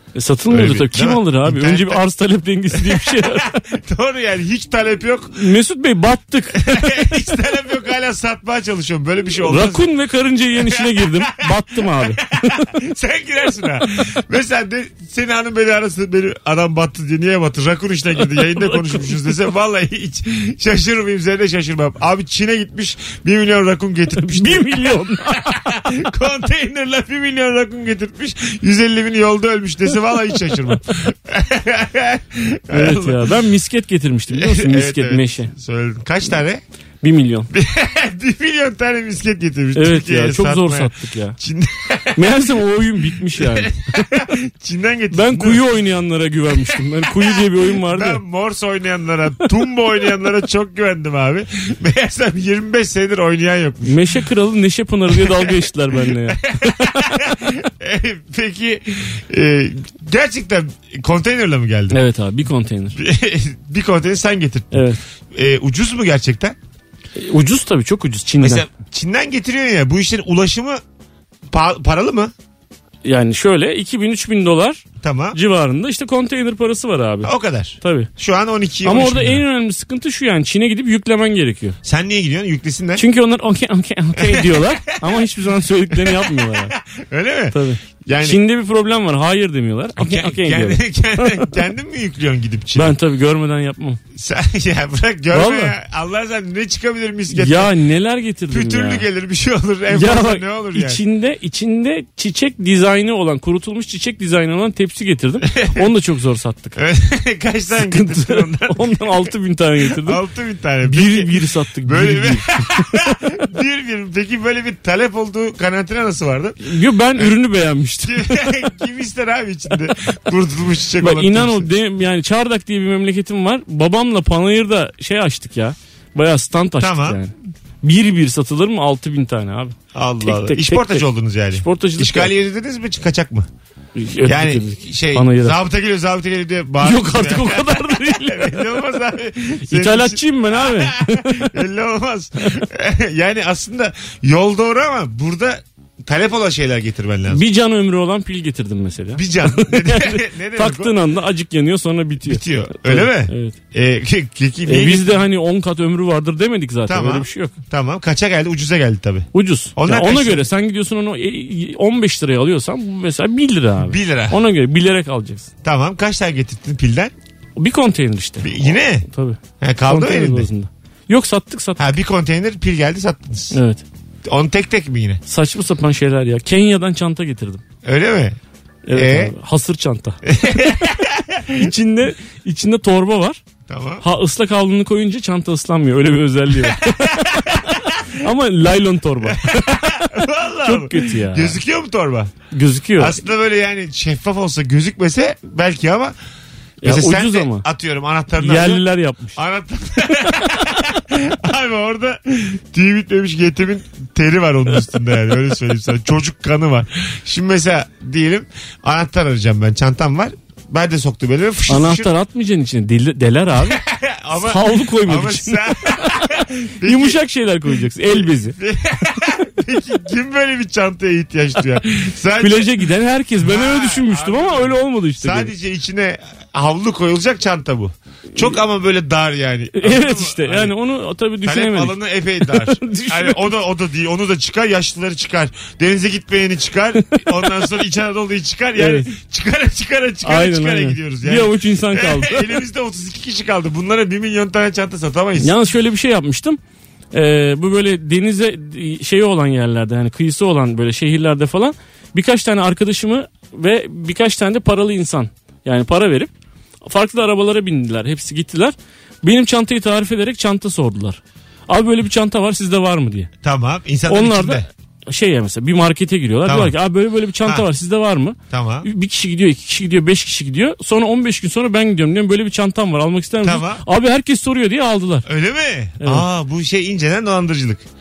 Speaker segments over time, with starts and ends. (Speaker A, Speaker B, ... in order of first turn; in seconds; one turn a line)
Speaker A: 0.1-3.5
Speaker B: 0.5-2.0
Speaker B: 2.7-5.4
Speaker A: 5.3-7.2
Speaker B: 6.6-9.9
Speaker A: 9.4-12.7
Speaker B: 10.6-33.4
Speaker A: 18.3-19.4
Speaker A: 24.2-25.9
Speaker A: 32.7-35.5
Speaker B: 34.3-36.6
Speaker A: 37.0-37.5
Speaker B: 37.5-42.3
Speaker A: 39.7-41.4
Speaker A: 42.1-44.2
Speaker B: 43.3-45.6
Speaker A: 45.1-48.2
Speaker B: 46.7-54.0
Speaker A: 53.8-57.4
Speaker B: 55.1-55.5
Speaker B: 56.3-62.0
Speaker A: 61.9-63.0
Speaker B: 63.0-66.5
Speaker A: 64.7-65.0
Speaker A: 67.2-68.7
Speaker B: 68.4-70.8
Speaker B: 71.5-72.3
Speaker A: 73.0-78.1
Speaker B: 75.0-75.4
Speaker B: 77.2-79.4
Speaker A: 78.8-81.8
Speaker B: 81.8-83.0
Speaker A: 83.0-86.7
Speaker B: 84.2-85.2
Speaker B: 85.9-88.4
Speaker A: 87.5-91.5
Speaker B: 90.0-93.0
Speaker A: 92.7-94.0
Speaker B: 94.1-97.7
Speaker A: 95.3-95.7
Speaker A: 97.3-99.0
Speaker B: 98.5-101.0
Speaker A: 99.9-106.8
Speaker B: 106.8-109.3
Speaker A: 107.8-110.2
Speaker B: 109.9-117.3
Speaker A: 110.8-113.2
Speaker A: 116.6-118.7
Speaker B: 118.0-121.7
Speaker A: 121.0-132.3
Speaker B: 126.8-127.2
Speaker B: 129.9-133.5
Speaker A: 133.9-135.6
Speaker B: 134.2-147.4
Speaker A: 136.8-138.8
Speaker A: 139.7-141.5
Speaker A: 147.3-153.6
Speaker B: 149.1-150.9
Speaker B: 152.2-155.1
Speaker A: 154.7-157.5
Speaker B: 156.9-160.4
Speaker A: 159.3-165.5
Speaker B: 163.8-164.4
Speaker B: 165.6-167.1
Speaker A: 167.6-171.8
Speaker B: 168.4-169.1
Speaker B: 169.6-170.5
Speaker B: 171.8-173.6
Speaker A: 173.5-173.8
Speaker B: 174.2-175.2
Speaker A: 175.3-177.6
Speaker B: 177.8-178.4
Speaker A: 178.9-180.9
Speaker B: 178.9-179.3
Speaker B: 180.3-181.7
Speaker A: 181.5-183.4
Speaker B: 183.7-184.0
Speaker A: 184.0-191.6
Speaker B: 187.1-188.0
Speaker B: 189.2-192.3
Speaker A: 192.5-193.2
Speaker B: 193.0-196.1
Speaker A: 196.8-197.6
Speaker B: 196.8-212.1
Speaker A: 198.4-199.4
Speaker A: 211.7-213.8
Speaker B: 213.6-217.2
Speaker A: 214.3-218.6
Speaker B: 218.1-222.7
Speaker A: 222.4-225.5
Speaker B: 223.4-230.7
Speaker A: 229.8-233.4
Speaker B: 231.4-245.5
Speaker A: 237.1-237.6
Speaker A: 238.8-239.1
Speaker A: 240.2-242.6
Speaker A: 245.4-246.6
Speaker A: 247.1-256.3
Speaker A: 256.8-263.3
Speaker B: 263.4-264.6
Speaker A: 264.1-275.3
Speaker B: 266.4-266.7
Speaker B: 268.5-268.9
Speaker B: 273.4-273.8
Speaker B: 275.2-277.8